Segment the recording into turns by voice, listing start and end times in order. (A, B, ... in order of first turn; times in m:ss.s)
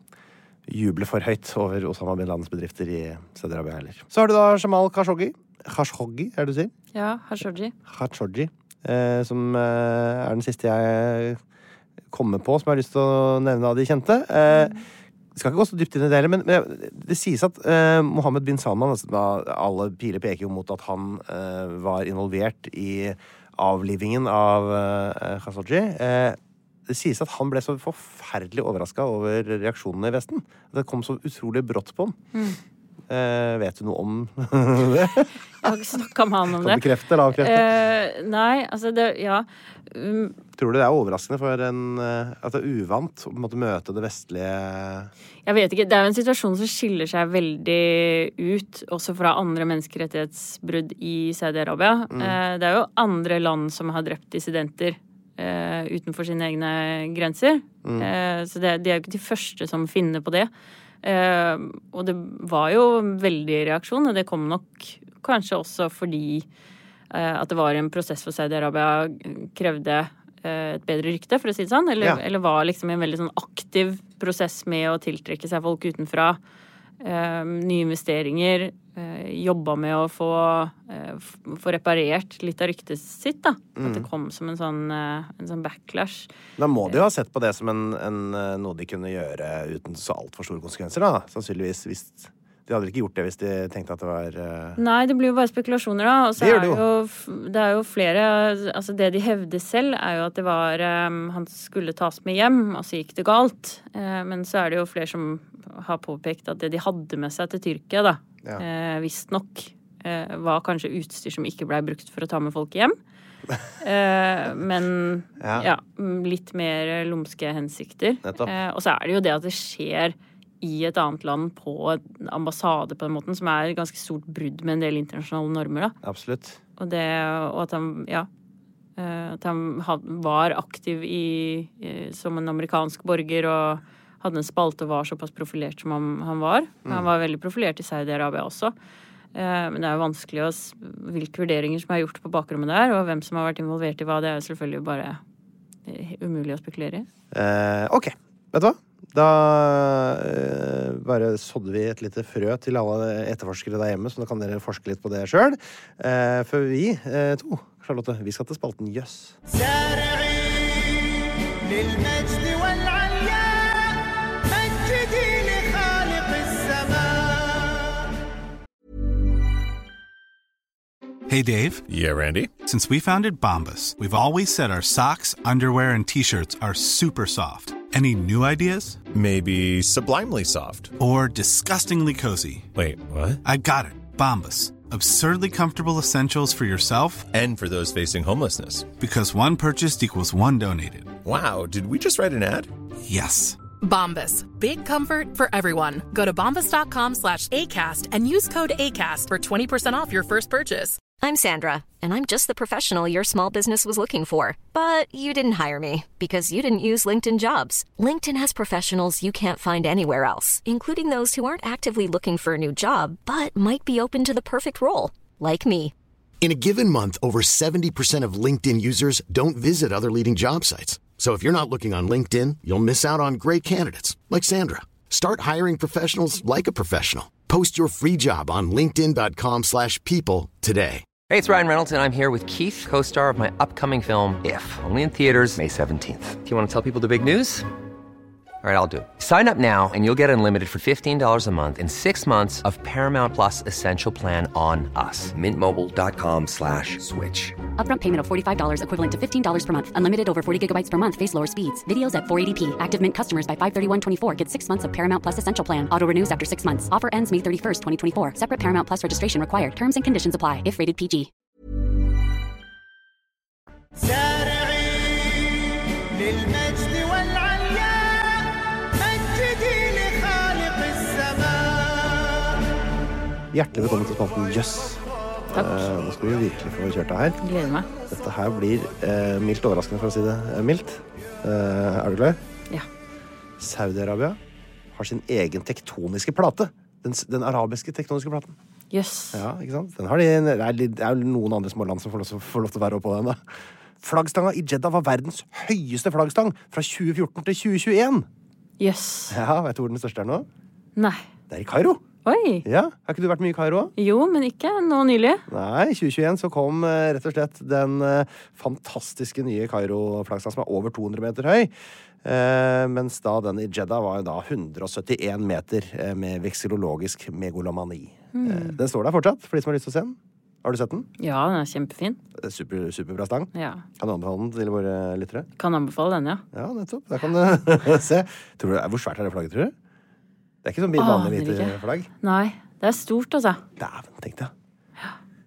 0:00.7-0:06.7 A
0:06.9-0:07.7 B
0:07.9-0:11.4 A
0:12.1-0:14.8 A
0:14.5-0:14.8 B
0:15.4-0:32.2 A
0:33.1-0:35.7 A
0:35.6-0:40.4 B
0:36.5-0:37.7 A
0:40.6-0:45.1 A
0:45.5-1:00.5 B
0:52.1-0:52.4 A
0:57.8-0:58.1 A
1:01.0-1:06.5 B
1:07.1-1:16.4 B
1:17.0-1:26.3 B
1:23.8-1:24.1 A
1:26.6-1:34.8 A
1:34.8-1:53.0 B
1:36.4-1:36.8 A
1:53.8-2:06.0 B
1:55.4-1:55.7 A
1:58.2-1:58.5 A
2:06.0-2:06.6 A
2:06.8-2:08.3 B
2:09.0-2:18.7 B
2:19.3-2:25.2 B
2:25.9-2:27.1 B
2:27.3-2:39.4 A
2:39.6-2:40.4 C
2:41.7-2:43.4 C
2:44.5-2:47.3 C
2:51.3-2:51.8 D
2:51.9-2:52.6 E
2:52.6-2:59.0 D
2:59.1-3:00.9 E
3:01.0-3:02.7 D
3:02.7-3:03.4 E
3:03.4-3:07.3 D
3:07.3-3:08.9 E
3:09.0-3:11.2 D
3:11.2-3:12.7 E
3:13.0-3:13.6 D
3:13.8-3:21.0 F
3:21.2-3:35.9 G
3:36.4-3:51.1 H
3:51.3-3:57.7 I
3:58.6-4:07.6 I
4:07.8-4:21.3 J
4:26.4-4:27.4 C
4:29.3-4:31.4 C
4:33.5-4:37.4 A
4:35.5-4:35.9 B
4:37.4-4:37.9 B
4:38.1-4:42.4 A
4:43.6-4:44.4 A
4:44.9-4:48.6 A
4:48.9-4:49.4 B
4:49.3-4:53.4 A
4:54.0-4:58.3 A
4:58.8-4:59.4 B
4:59.3-5:00.5 A
5:01.0-5:01.2 B
5:01.5-5:02.0 A
5:02.2-5:02.7 B
5:02.6-5:03.9 A
5:04.0-5:05.4 B
5:05.5-5:11.7 A
5:12.2-5:21.1 A
5:18.3-5:18.8 B
5:21.2-5:22.2 B
5:22.4-5:25.5 A
5:23.5-5:23.8 B
5:25.6-5:26.4 B
5:26.5-5:29.7 A
5:30.6-5:32.1 A
5:31.0-5:33.6 B
5:33.8-5:34.5 A